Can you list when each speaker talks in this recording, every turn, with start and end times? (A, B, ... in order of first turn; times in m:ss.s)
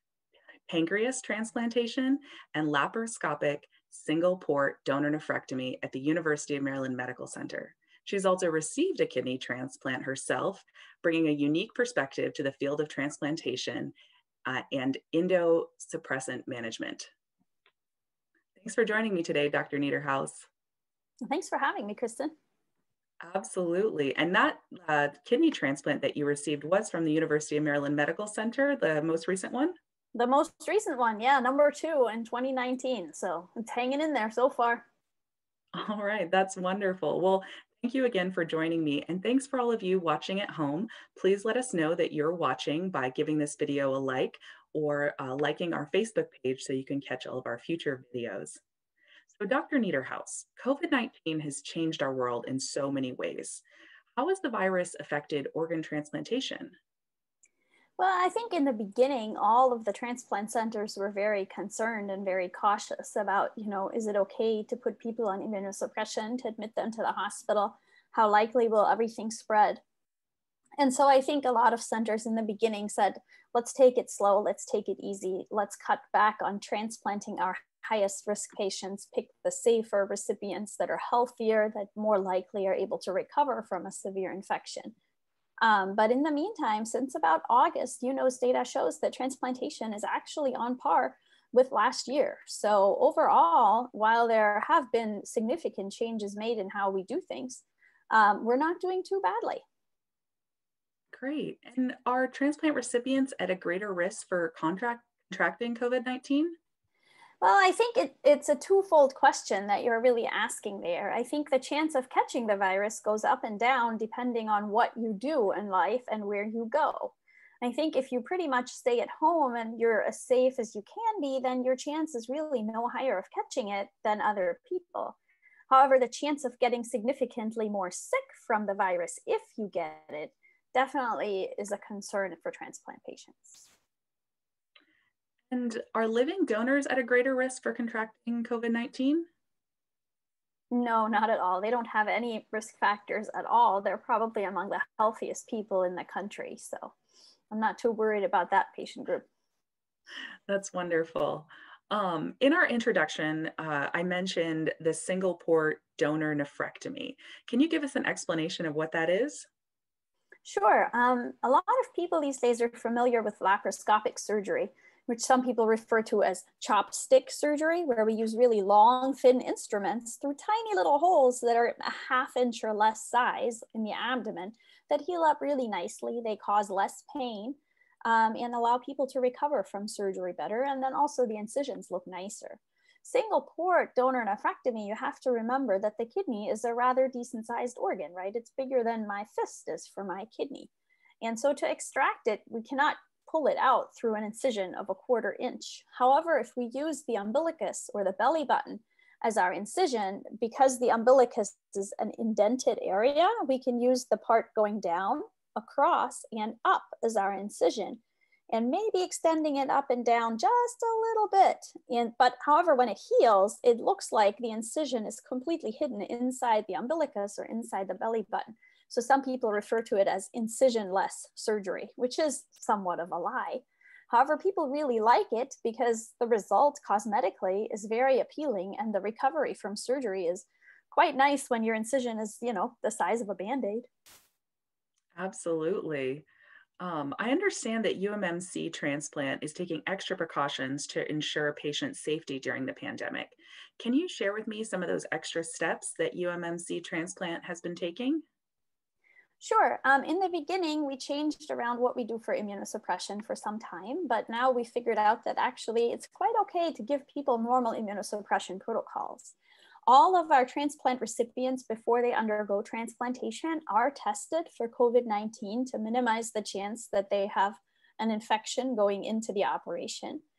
0:00.7-0:13.9 A
0:14.4-0:17.1 A
0:18.6-0:20.5 A
0:21.2-0:22.3 B
0:23.2-0:29.8 A
0:30.1-0:34.8 B
0:35.7-0:48.6 A
0:49.3-0:53.6 A
0:54.2-0:56.7 A
0:58.0-1:09.8 B
1:10.8-1:24.9 B
1:25.6-1:39.6 B
1:41.1-1:46.5 A
1:47.4-2:05.2 B
2:05.7-2:13.7 B
2:15.5-2:19.3 A
2:20.7-2:26.9 B
2:27.5-2:29.3 B
2:30.5-2:39.5 A
2:40.4-3:10.7 B
3:11.2-3:53.9 B
3:55.1-3:56.2 A
3:56.8-4:08.2 A
4:09.4-4:19.4 B
4:19.9-4:30.2 B